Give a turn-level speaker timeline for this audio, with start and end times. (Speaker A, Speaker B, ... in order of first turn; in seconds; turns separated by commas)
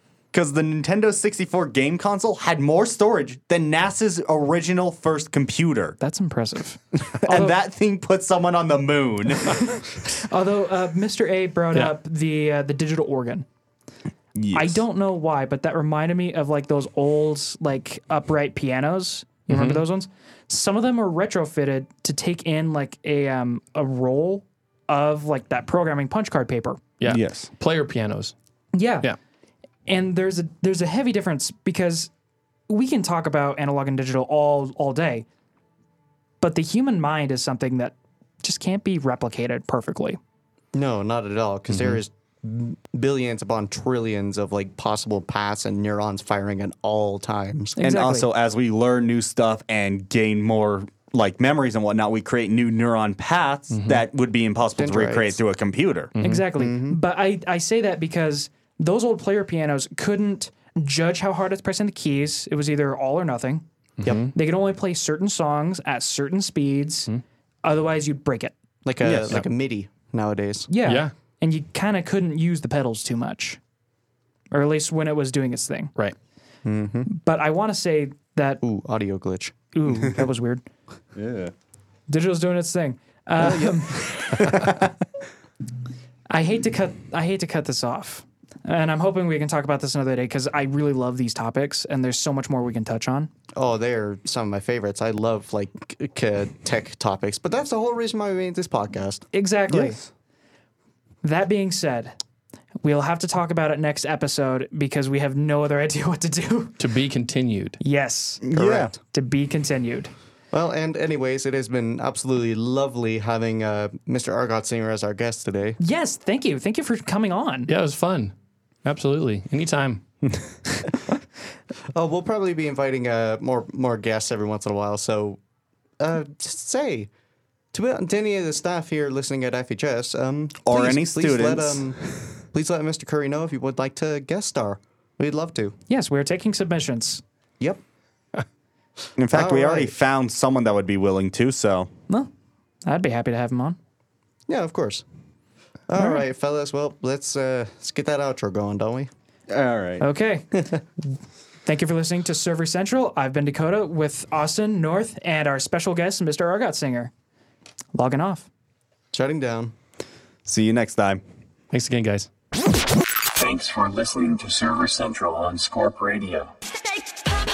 Speaker A: 0.3-6.0, Speaker B: 6.0-7.6, Speaker A: 7.1-9.8, Speaker B: 10.1-13.4, Speaker A: 14.3-14.8, Speaker B: 14.5-26.8, Speaker C: 19.5-19.8, Speaker C: 27.0-28.3, Speaker A: 27.1-27.5, Speaker B: 28.7-29.1, Speaker B: 29.9-32.1, Speaker B: 32.7-35.2, Speaker B: 36.4-40.2, Speaker D: 40.7-47.8, Speaker C: 41.7-42.0, Speaker B: 47.8-48.3, Speaker A: 47.8-56.1, Speaker C: 53.7-54.0, Speaker D: 54.8-55.4, Speaker C: 56.1-56.5, Speaker B: 56.2-63.6, Speaker D: 56.5-57.0, Speaker C: 64.0-64.3, Speaker D: 64.0-64.3, Speaker B: 64.3-67.1, Speaker B: 67.6-68.6, Speaker D: 68.8-70.7, Speaker A: 69.0-69.3, Speaker C: 69.1-69.5, Speaker B: 70.7-73.6, Speaker C: 70.9-71.1, Speaker B: 74.5-75.9, Speaker D: 76.6-77.1, Speaker B: 77.1-78.6, Speaker D: 78.6-79.5, Speaker B: 79.7-80.6, Speaker A: 81.1-81.5, Speaker B: 82.1-84.4, Speaker D: 83.4-84.0, Speaker A: 84.4-84.8, Speaker B: 86.3-93.3, Speaker D: 93.5-99.2, Speaker B: 99.3-100.0, Speaker A: 99.7-100.0, Speaker B: 101.2-102.2, Speaker B: 102.8-106.8, Speaker C: 106.8-107.8, Speaker B: 107.8-108.5, Speaker A: 108.4-108.9, Speaker D: 108.5-109.0, Speaker B: 109.0-110.1, Speaker D: 110.5-115.8, Speaker B: 115.8-117.7, Speaker C: 117.7-118.3, Speaker C: 118.8-120.0, Speaker D: 121.9-125.4, Speaker D: 126.0-127.1, Speaker D: 127.7-132.0, Speaker A: 130.6-131.9, Speaker D: 132.5-135.7, Speaker B: 135.9-137.2, Speaker A: 139.2-141.9, Speaker D: 139.3-139.9, Speaker B: 142.8-143.8, Speaker D: 144.5-145.1, Speaker D: 145.9-149.1, Speaker B: 145.9-146.2, Speaker A: 149.5-150.1, Speaker B: 150.0-150.5, Speaker D: 150.5-150.8, Speaker B: 151.6-157.1, Speaker B: 157.9-158.5, Speaker D: 159.1-159.7, Speaker A: 160.4-161.2, Speaker C: 161.7-162.3, Speaker E: 163.4-166.5